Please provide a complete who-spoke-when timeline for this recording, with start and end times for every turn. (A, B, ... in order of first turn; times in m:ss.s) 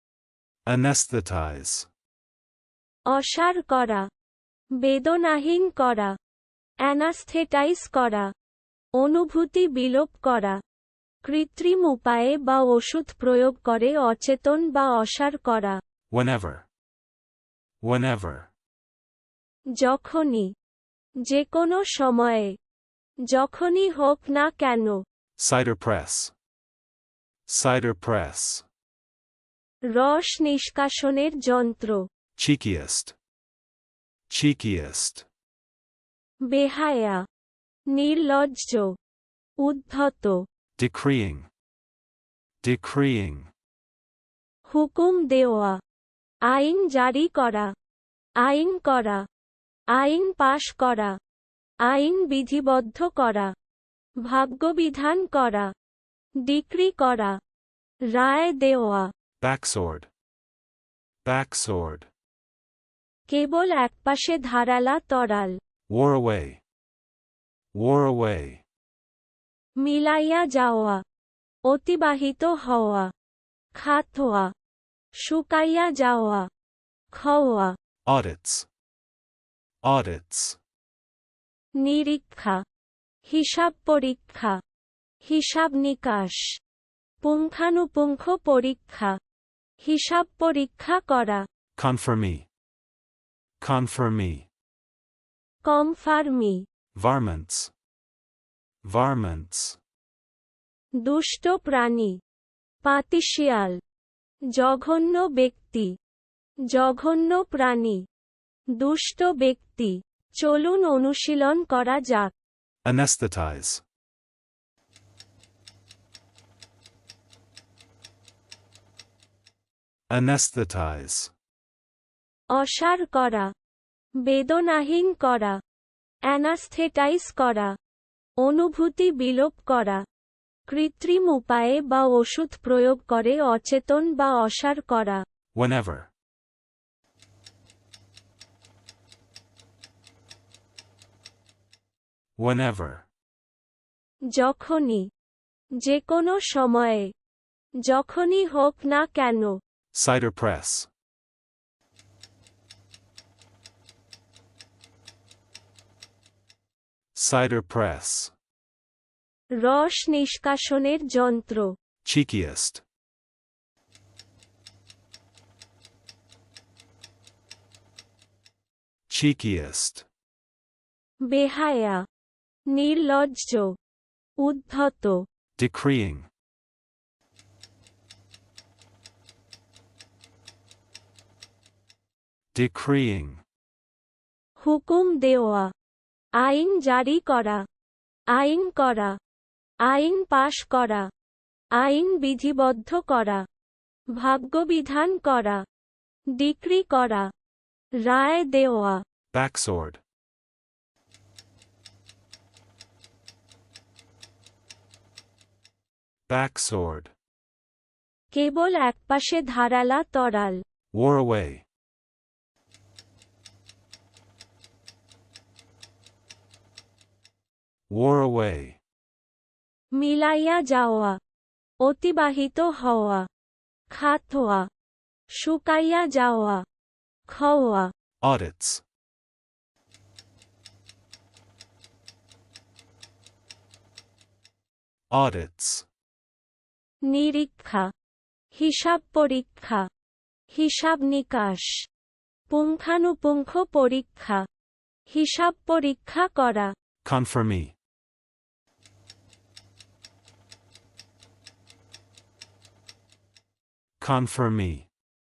0:00.6-0:01.9 A
0:03.1-0:04.1 B
0:04.8-0:06.1 B
0:06.8-0:08.3 B
0:09.0-0:10.6 B
0:11.2-0:15.8 B
0:16.1-0:16.6 A
0:17.8-0:18.5 A
0:19.8-0:20.5 B
0:21.2-0:22.5 B
0:23.3-0:25.0 B
0:25.4-0:26.3 A
0:27.5-0:28.6 A
0:29.9-0:32.0 B
0:32.4-0:33.1 A
0:34.3-0:35.2 A
0:36.4-0:37.2 B
0:37.9-0:38.9 B
0:39.6-0:40.4 B
0:40.8-0:41.5 A
0:42.6-0:43.5 A
0:44.7-0:45.8 B
0:46.5-0:47.7 B
0:48.4-0:49.2 B
0:49.9-0:51.1 B
0:51.8-0:53.5 B
0:54.2-0:55.7 B
0:56.4-0:57.4 B
0:58.1-0:59.1 B
0:59.4-1:00.1 A
1:01.2-1:02.1 A
1:03.3-1:05.6 B
1:05.9-1:06.6 A
1:07.7-1:08.6 A
1:09.8-1:11.0 B
1:11.6-1:13.1 B
1:13.7-1:14.5 B
1:15.2-1:16.5 B
1:17.1-1:17.7 B
1:18.0-1:18.7 A
1:19.8-1:20.6 A
1:21.8-1:22.6 B
1:23.2-1:24.6 B
1:25.2-1:26.6 B
1:27.2-1:29.2 B
1:29.8-1:31.4 B
1:31.8-1:32.5 A
1:33.6-1:34.5 A
1:35.6-1:36.6 B
1:36.9-1:37.7 A
1:38.8-1:39.8 A
1:41.0-1:42.2 B
1:42.8-1:43.8 B
1:44.6-1:45.9 B
1:46.7-1:48.0 B
1:48.8-1:52.3 B
1:52.8-1:53.8 A
2:00.1-2:01.3 A
2:02.5-2:03.5 B
2:04.2-2:05.6 B
2:06.3-2:07.7 B
2:08.4-2:10.0 B
2:10.7-2:15.2 B
2:15.5-2:16.1 A
2:22.4-2:23.0 A
2:24.3-2:25.1 B
2:25.8-2:27.1 B
2:27.8-2:29.6 B
2:29.9-2:30.9 A
2:37.1-2:38.3 A
2:39.6-2:41.7 B
2:42.0-2:42.8 A
2:49.1-2:50.0 A
2:51.3-2:52.0 B
2:52.7-2:53.7 B
2:54.4-2:55.2 B
2:55.6-2:56.3 A
3:02.5-3:03.4 A
3:04.6-3:05.7 B
3:06.4-3:07.6 B
3:08.3-3:09.2 B
3:09.8-3:11.1 B
3:11.8-3:13.4 B
3:14.2-3:15.6 B
3:16.4-3:17.3 B
3:18.0-3:19.0 B
3:19.3-3:20.0 A
3:26.3-3:27.1 A
3:28.3-3:30.6 B
3:30.9-3:31.6 A
3:37.9-3:38.8 A
3:40.0-3:41.2 B
3:41.8-3:43.3 B
3:43.9-3:44.7 B
3:45.3-3:46.6 B
3:47.3-3:47.9 B
3:48.2-3:48.8 A
3:55.1-3:55.8 A
3:57.0-3:57.9 B
3:58.5-3:59.9 B
4:00.5-4:01.9 B
4:02.5-4:04.4 B
4:05.1-4:06.7 B
4:07.0-4:07.7 A
4:14.0-4:14.9 A